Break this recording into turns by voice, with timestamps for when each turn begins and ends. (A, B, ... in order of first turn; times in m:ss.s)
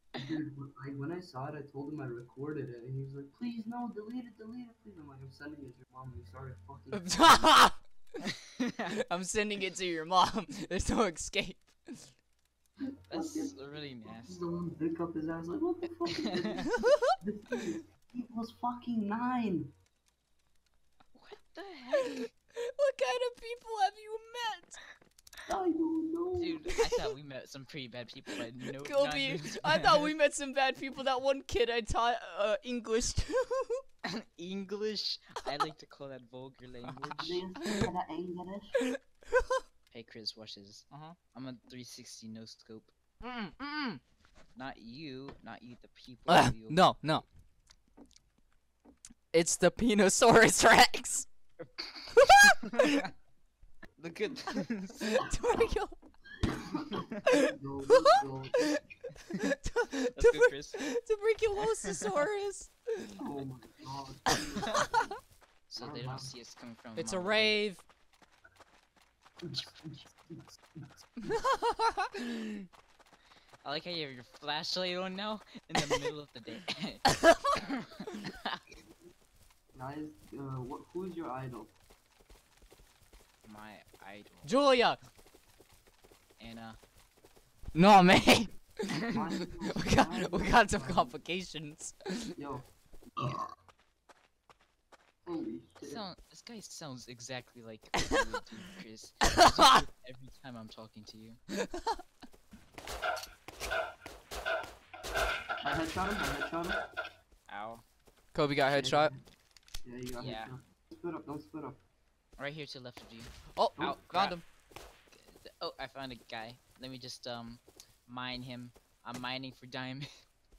0:00.1-0:07.2 A
0:06.9-0:07.8 B
0:08.6-0:09.0 C
0:09.1-0:12.1 B
0:13.1-0:19.7 A
0:13.1-0:14.4 C
0:21.1-0:22.3 C
0:21.9-0:24.8 B
0:25.5-0:26.7 A
0:26.4-0:30.1 C
0:28.8-0:33.8 B
0:34.1-0:37.4 C
0:37.2-0:38.8 A
0:38.9-0:39.6 B
0:39.9-0:42.9 C
0:40.9-0:41.2 B
0:43.2-0:44.0 B
0:44.6-0:46.9 C
0:46.3-0:47.2 B
0:49.3-0:51.3 B
0:51.6-0:52.5 C
0:52.3-0:53.0 B
0:54.0-0:55.2 C
0:55.1-0:56.0 B
0:56.4-0:59.0 A
0:59.4-1:03.2 B
1:00.2-1:00.8 C
1:03.2-1:05.2 A
1:05.7-1:07.6 C
1:05.8-1:06.3 A
1:07.0-1:07.8 B
1:09.4-1:10.6 A
1:11.2-1:12.6 B
1:13.6-1:18.6 C
1:19.7-1:21.8 A
1:23.4-1:24.5 C
1:24.4-1:25.0 B
1:26.4-1:26.8 C
1:27.7-1:29.2 B
1:29.1-1:31.2 A
1:29.8-1:32.3 B
1:32.4-1:33.5 A
1:35.2-1:36.0 A
1:35.8-1:41.4 C
1:41.6-1:42.0 B
1:45.6-1:46.8 A
1:47.5-1:47.8 C
1:48.3-1:49.1 B
1:48.7-1:49.2 A
1:49.8-1:51.8 A
1:50.2-1:50.5 C
1:52.4-1:54.4 C
1:53.5-1:54.4 B
1:55.1-2:00.1 C